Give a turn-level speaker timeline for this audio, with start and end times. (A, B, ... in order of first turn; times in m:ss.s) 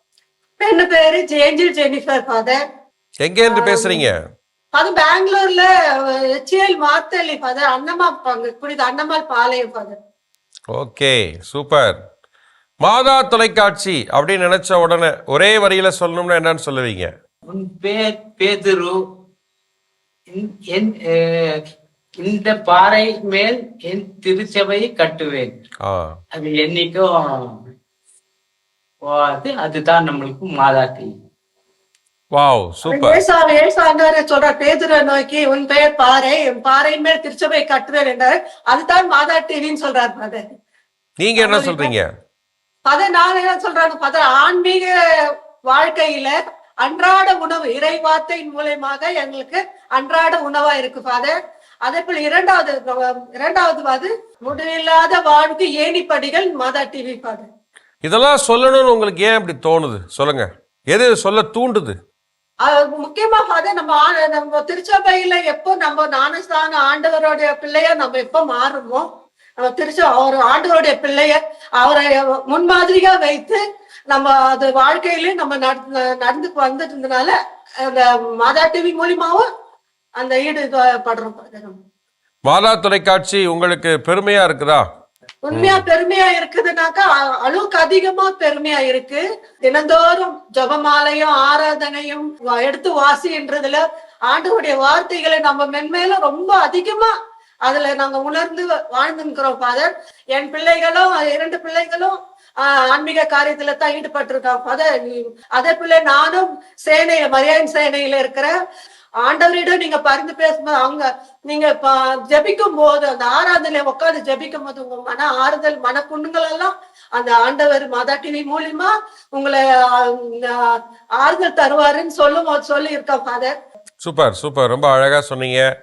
0:00.6-0:02.6 A
0:03.2-0:04.2 B
0:03.5-0:04.0 A
0:04.7-0:05.7 A
0:06.4-0:10.0 A
0:10.7-0:12.0 B
0:12.8-0:17.1 B
0:17.5-0:19.0 C
0:20.3-0:21.6 C
0:22.2-0:25.5 C
0:25.8-0:26.2 B
0:26.3-0:27.6 C
0:29.0-0:31.1 C
0:32.3-0:33.2 B
0:32.9-0:40.4 A
0:41.2-0:42.1 B
0:41.4-0:41.9 A
0:42.9-0:44.9 A
0:45.7-0:51.3 A
0:51.9-0:57.5 A
0:58.0-1:02.0 B
1:02.6-1:09.1 A
1:09.6-1:19.5 A
1:20.2-1:21.8 A
1:22.5-1:24.8 B
1:25.5-1:37.1 A
1:25.5-1:25.8 B
1:37.7-1:44.9 A
1:45.6-1:48.5 A
1:49.2-2:00.6 A
2:01.2-2:03.5 A
2:04.0-2:05.7 B